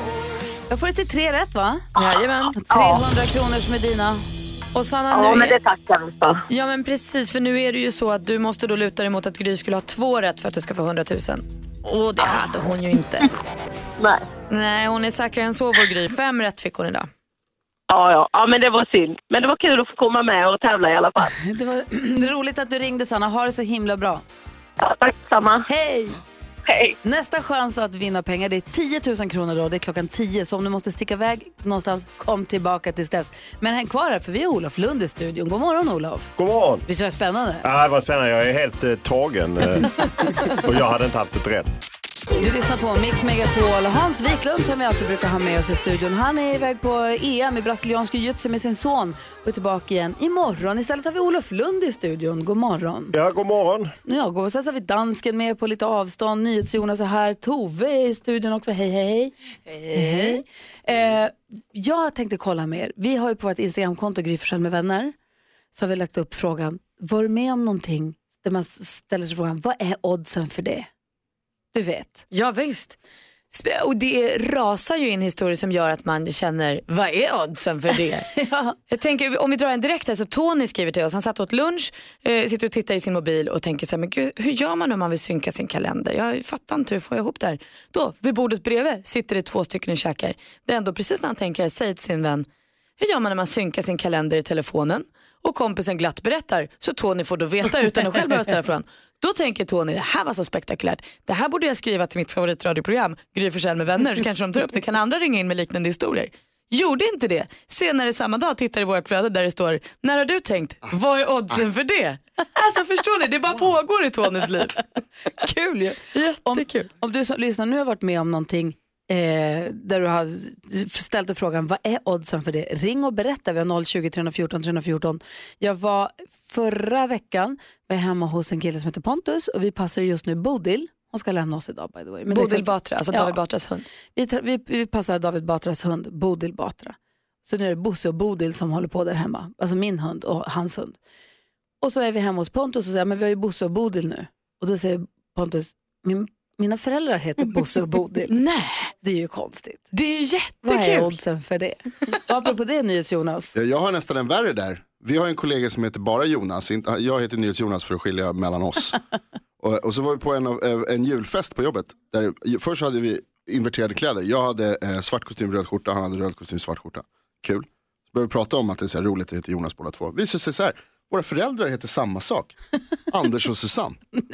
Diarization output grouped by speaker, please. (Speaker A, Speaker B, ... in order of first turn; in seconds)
Speaker A: 0.7-1.9, 2.6-4.2, 21.4-24.2, 25.7-26.2, 27.0-36.3, 36.9-37.6, 42.4-53.1, 54.0-59.3, 59.9-65.1, 65.7-70.9, 71.7-72.3, 78.4-78.8, 115.4-133.4, 134.2-141.0, 141.8-148.4, 149.0-149.9, 150.6-153.5
Speaker B: 2.0-2.6, 4.7-5.5, 6.5-13.3, 14.5-17.1, 60.0-60.3, 72.3-73.0, 73.5-78.3, 78.9-92.5, 93.0-114.8, 116.1-116.9, 132.3-133.8, 148.3-148.9, 149.9-151.1
Speaker C: 2.7-3.0, 5.1-6.4, 17.9-21.3, 24.8-25.6, 26.7-26.9
Speaker D: 36.4-36.8, 37.6-41.7, 53.1-53.9
Speaker E: 153.6-159.0, 159.6-172.6, 173.1-174.0